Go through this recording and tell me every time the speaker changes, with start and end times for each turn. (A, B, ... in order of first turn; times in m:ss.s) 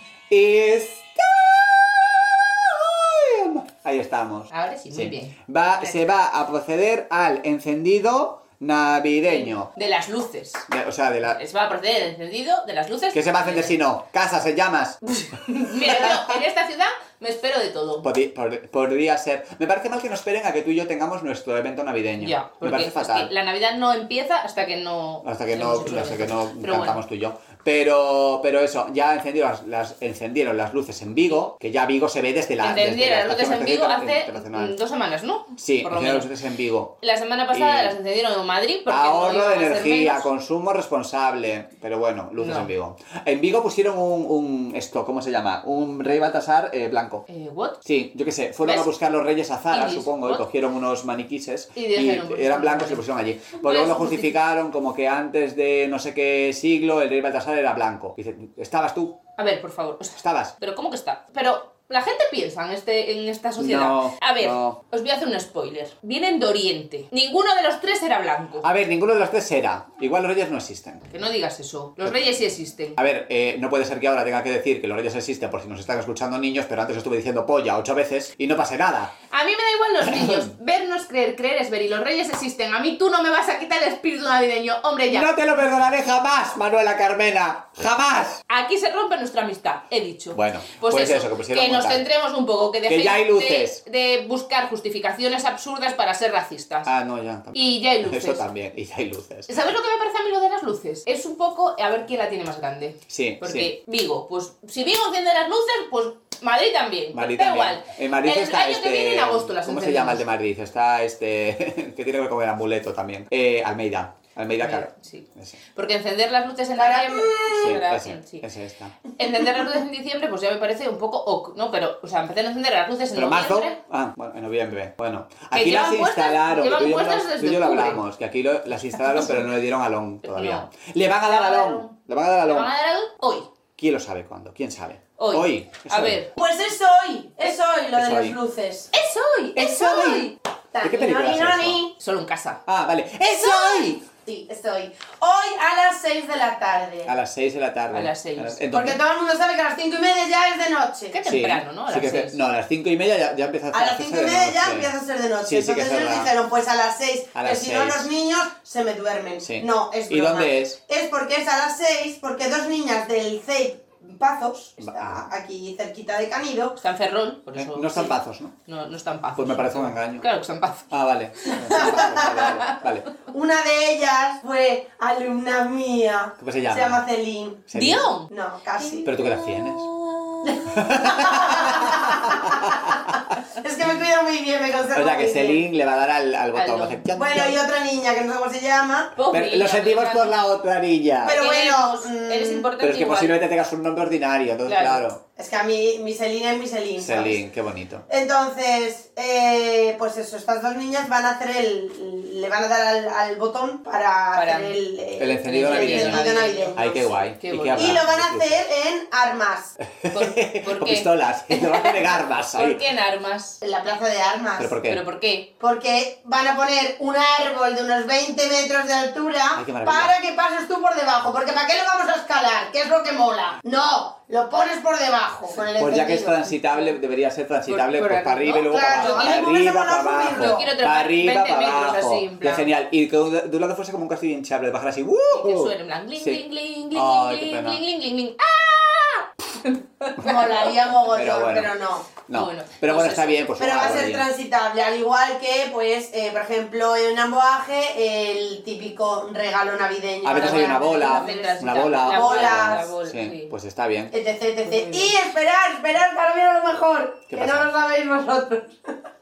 0:00.3-0:09.7 A
0:04.5-0:06.1 B
0:09.3-0:10.6 B
0:10.7-0:11.4 A
0:11.2-0:13.8 B
0:13.1-0:15.0 A
0:15.2-0:18.1 B
0:15.6-0:16.4 A
0:18.0-0:23.3 A
0:22.2-0:27.0 B
0:25.2-0:34.7 A
0:32.6-0:36.3 B
0:35.6-0:37.0 A
0:37.0-0:40.3 B
0:37.5-0:38.0 A
0:38.9-0:47.2 A
0:42.4-0:42.7 B
0:47.3-0:47.8 B
0:47.8-0:59.2 A
0:48.6-0:48.9 B
0:49.7-0:50.4 B
0:51.8-0:53.0 B
0:53.5-0:54.3 B
0:59.4-1:08.7 B
1:00.2-1:00.5 A
1:03.6-1:04.8 A
1:08.6-1:11.1 A
1:11.1-1:13.0 B
1:13.0-1:19.1 A
1:19.3-1:25.3 B
1:20.0-1:20.5 A
1:25.1-1:28.4 A
1:28.5-1:36.9 B
1:30.3-1:32.0 A
1:32.8-1:33.8 A
1:36.8-1:39.5 A
1:37.5-1:38.4 B
1:39.5-1:50.2 B
1:43.1-1:43.7 A
1:47.1-1:55.6 A
1:54.6-1:58.4 B
1:56.8-1:57.8 C
1:57.6-1:59.0 A
1:59.2-2:03.8 B
2:03.1-2:12.7 A
2:05.5-2:08.0 B
2:09.0-2:09.4 B
2:10.2-2:10.7 B
2:11.2-2:13.5 B
2:13.8-2:16.2 A
2:15.2-2:16.3 B
2:16.3-2:18.9 C
2:17.9-2:18.4 A
2:18.9-2:20.3 B
2:19.6-2:21.8 A
2:20.7-2:21.9 C
2:22.0-2:22.6 B
2:22.6-2:24.0 A
2:23.3-2:27.1 C
2:27.0-2:29.0 A
2:27.9-2:28.6 B
2:28.7-2:31.1 C
2:31.1-2:32.4 B
2:31.2-2:36.3 A
2:33.7-2:46.8 C
2:37.3-2:38.1 A
2:39.4-2:40.8 A
2:44.8-2:45.3 A
2:46.8-2:50.9 B
2:47.5-2:48.5 A
2:49.4-2:50.3 A
2:50.9-2:53.1 A
2:51.4-2:52.7 B
2:51.7-2:52.5 C
2:53.3-2:57.7 C
2:56.4-2:57.0 A
2:57.7-2:58.1 A
2:57.7-2:58.3 B
2:58.3-2:59.1 C
2:58.8-3:00.9 B
2:59.0-2:59.9 A
3:00.4-3:05.6 C
3:00.7-3:02.9 A
3:04.9-3:07.6 A
3:06.5-3:07.4 B
3:07.1-3:09.1 C
3:09.2-3:10.4 B
3:09.3-3:11.4 A
3:11.2-3:12.7 C
3:11.3-3:13.4 B
3:12.8-3:15.2 A
3:14.6-3:15.0 B
3:15.4-3:17.4 C
3:17.0-3:18.0 A
3:18.1-3:27.1 C
3:24.3-3:24.8 B
3:25.2-3:28.6 A
3:25.4-3:26.8 B
3:27.4-3:28.0 B
3:27.7-3:29.8 C
3:30.0-3:32.8 A
3:30.1-3:33.6 B
3:33.6-3:34.7 C
3:34.6-3:35.0 A
3:34.9-3:35.5 B
3:35.6-3:46.4 C
3:39.5-3:40.1 A
3:45.8-3:57.8 A
3:47.7-3:49.5 B
3:48.7-3:50.7 C
3:50.3-3:52.7 B
3:55.3-4:00.6 B
4:00.2-4:02.1 C
4:01.1-4:01.7 A
4:02.3-4:04.3 A
4:02.3-4:03.5 B
4:03.6-4:12.9 C
4:10.2-4:14.1 A
4:10.3-4:13.5 B
4:14.1-4:18.9 C
4:14.7-4:15.1 B
4:17.3-4:17.7 A